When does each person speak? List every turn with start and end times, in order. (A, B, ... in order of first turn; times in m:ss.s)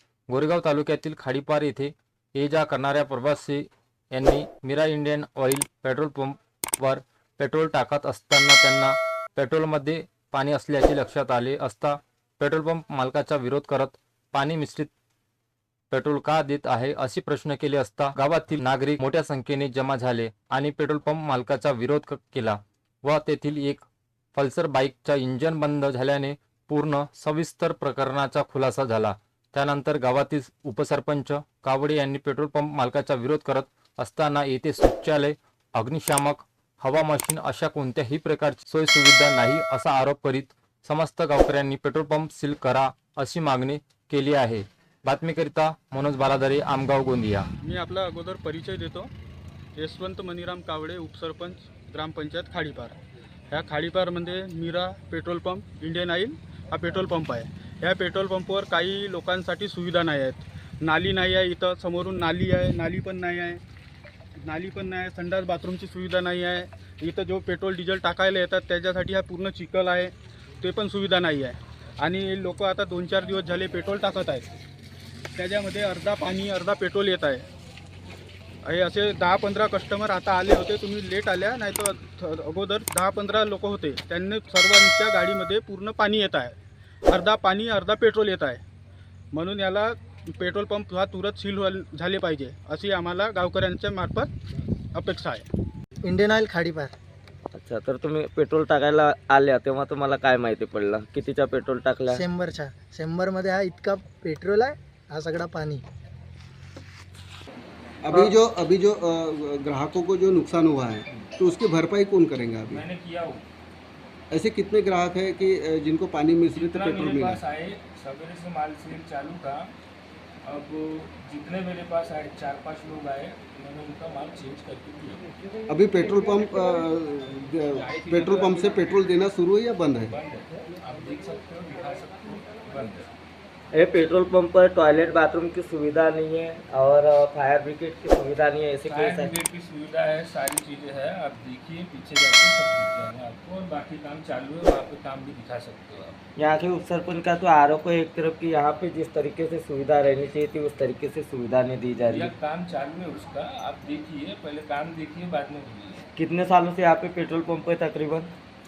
0:00.3-0:14.9 A
0:15.9-0:47.5 A
0:47.6-0:49.1 B
0:49.8-0:53.0 B
0:53.5-1:03.6 B
1:04.4-1:14.6 B
1:15.4-1:17.5 B
1:18.6-1:28.6 B
1:29.3-1:34.3 B
1:34.9-1:35.5 B
1:36.0-1:36.9 C
1:37.5-1:42.2 D
1:42.1-1:45.8 C
1:48.0-1:52.8 E
1:52.7-1:53.4 F
1:54.3-1:57.4 E
1:56.5-1:59.7 F
2:00.4-2:05.3 F
2:05.7-2:10.2 E
2:07.7-2:08.9 F
2:10.1-2:13.1 F
2:13.7-2:19.3 D
2:18.8-2:26.2 F
2:26.4-2:32.3 D
2:32.1-2:36.0 F
2:36.1-2:38.3 D